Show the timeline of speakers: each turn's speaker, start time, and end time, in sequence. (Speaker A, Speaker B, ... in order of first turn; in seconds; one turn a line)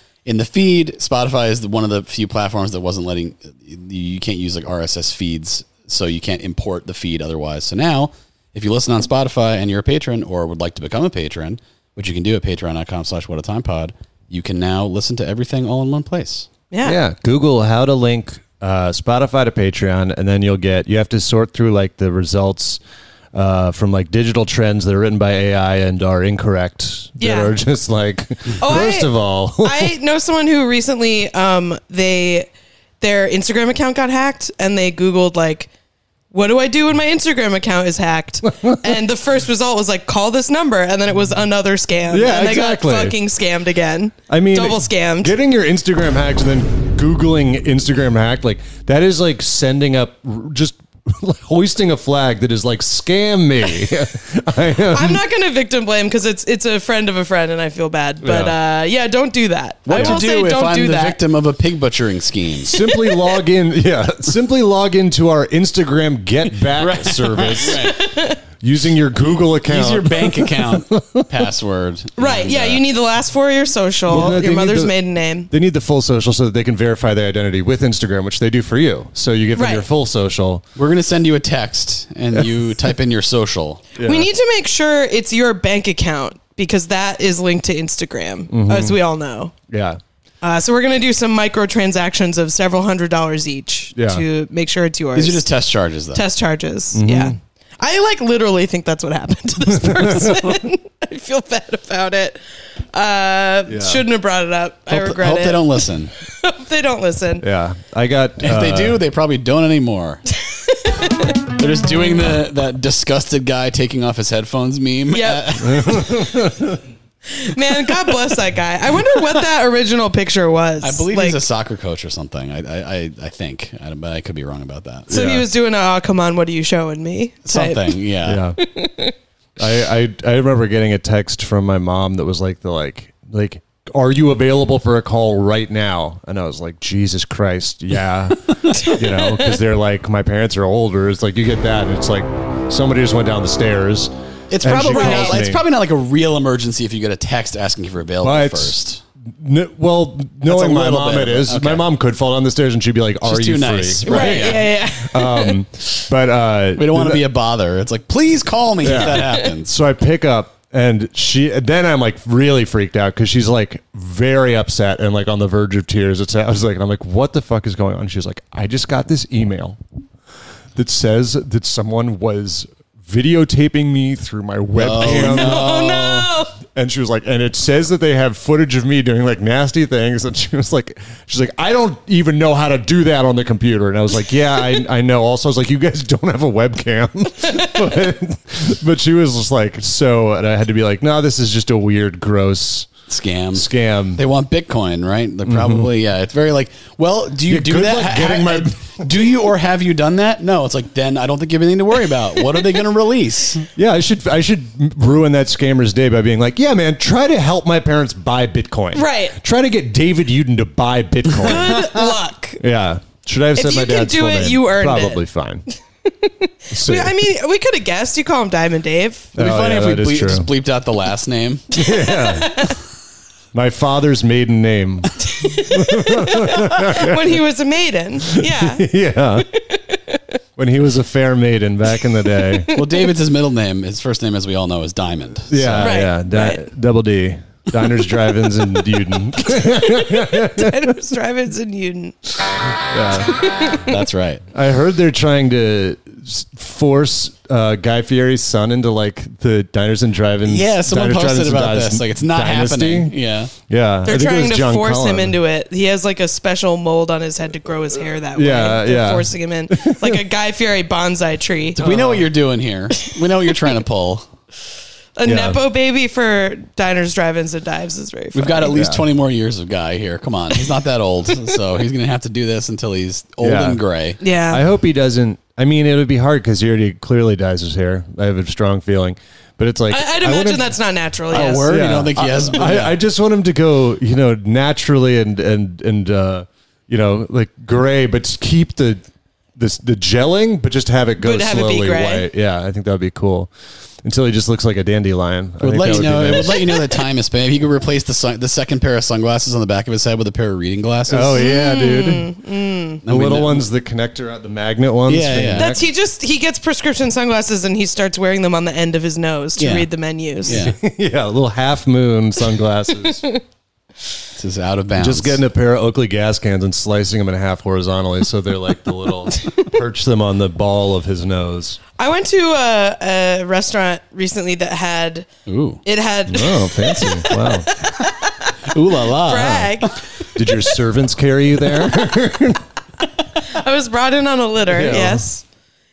Speaker A: 0.2-16.5
Speaker B: 16.7-17.0
Speaker C: 16.8-22.8
Speaker C: 23.3-29.9
Speaker B: 27.2-27.5
Speaker B: 28.6-32.5
Speaker B: 33.0-35.7
Speaker B: 36.3-45.3
Speaker C: 38.5-38.9
Speaker C: 42.1-43.1
Speaker C: 44.3-55.2
Speaker B: 54.9-61.2
Speaker C: 58.2-58.5
Speaker A: 59.9-62.7
Speaker C: 59.9-60.2
Speaker C: 62.6-67.9
Speaker B: 62.9-63.2
Speaker A: 66.8-68.0
Speaker B: 67.6-68.4
Speaker C: 68.6-71.2
Speaker A: 69.7-72.8
Speaker B: 72.2-75.5
Speaker C: 74.1-74.9
Speaker C: 75.5-80.6
Speaker B: 79.5-79.9
Speaker A: 80.8-83.9
Speaker C: 84.0-84.3
Speaker B: 84.0-89.5
Speaker C: 88.5-89.0
Speaker C: 89.7-90.0
Speaker B: 90.4-95.5
Speaker C: 94.0-94.2
Speaker A: 95.1-96.2
Speaker B: 96.1-102.4
Speaker C: 96.9-97.4
Speaker C: 99.7-100.4
Speaker B: 102.9-107.4
Speaker C: 103.7-104.0
Speaker A: 104.9-106.1
Speaker C: 107.4-109.0
Speaker A: 108.4-110.2
Speaker B: 110.4-111.3
Speaker A: 111.5-116.3
Speaker B: 115.1-116.1
Speaker C: 115.7-116.8
Speaker B: 117.3-121.4
Speaker A: 120.8-125.1
Speaker B: 125.1-128.0
Speaker C: 125.1-125.5
Speaker A: 127.5-128.4
Speaker C: 128.2-128.6
Speaker B: 128.6-129.1
Speaker C: 129.6-145.6
Speaker B: 138.8-139.4
Speaker A: 144.5-149.0
Speaker B: 144.9-145.4
Speaker C: 148.2-148.7
Speaker C: 149.3-157.2
Speaker A: 150.4-151.8
Speaker A: 153.2-154.7
Speaker B: 154.1-155.6
Speaker A: 156.8-159.7
Speaker C: 158.8-169.8
Speaker C: 170.7-175.7
Speaker A: 174.8-176.3
Speaker B: 175.0-176.5
Speaker C: 176.7-192.9
Speaker A: 193.1-203.7
Speaker C: 193.5-194.2
Speaker C: 195.5-195.9
Speaker C: 197.5-199.1
Speaker C: 203.8-215.7
Speaker B: 208.9-209.3
Speaker B: 211.4-212.6
Speaker B: 213.5-215.2
Speaker B: 216.1-219.3
Speaker C: 216.7-217.1
Speaker C: 219.3-220.5
Speaker A: 219.3-221.7
Speaker C: 221.7-222.7
Speaker B: 221.8-222.8
Speaker C: 223.5-227.4
Speaker B: 225.2-228.9
Speaker C: 228.3-229.4
Speaker B: 229.4-230.2
Speaker C: 230.6-232.7
Speaker A: 232.7-236.0
Speaker C: 235.5-240.9
Speaker B: 235.8-236.6
Speaker B: 239.4-242.2
Speaker C: 242.9-243.3
Speaker B: 243.3-243.8
Speaker A: 243.8-244.4
Speaker C: 244.5-255.4
Speaker A: 250.5-253.5
Speaker B: 254.1-261.8
Speaker C: 258.3-260.2
Speaker C: 261.8-262.3
Speaker A: 261.8-264.3
Speaker B: 265.2-268.7
Speaker C: 265.2-265.6
Speaker A: 268.3-274.2
Speaker C: 268.7-269.0
Speaker C: 273.4-273.8
Speaker B: 274.2-274.6
Speaker C: 274.5-280.8
Speaker B: 279.9-281.9
Speaker A: 281.3-282.9
Speaker C: 281.5-289.0
Speaker C: 289.6-293.5
Speaker B: 291.2-292.3
Speaker C: 294.0-296.7
Speaker A: 295.6-301.4
Speaker C: 301.1-302.3
Speaker B: 301.3-303.0
Speaker A: 303.0-303.7
Speaker C: 303.1-305.9
Speaker A: 305.1-305.7
Speaker B: 305.6-310.6
Speaker A: 309.6-309.9
Speaker A: 310.4-310.8
Speaker C: 310.5-313.2
Speaker A: 314.4-315.4
Speaker C: 314.9-321.8
Speaker B: 322.0-325.3
Speaker A: 325.5-325.8
Speaker B: 325.8-328.5
Speaker C: 326.3-327.7
Speaker A: 328.7-329.9
Speaker B: 329.2-329.9
Speaker C: 330.3-332.6
Speaker B: 333.4-335.4
Speaker C: 334.7-335.2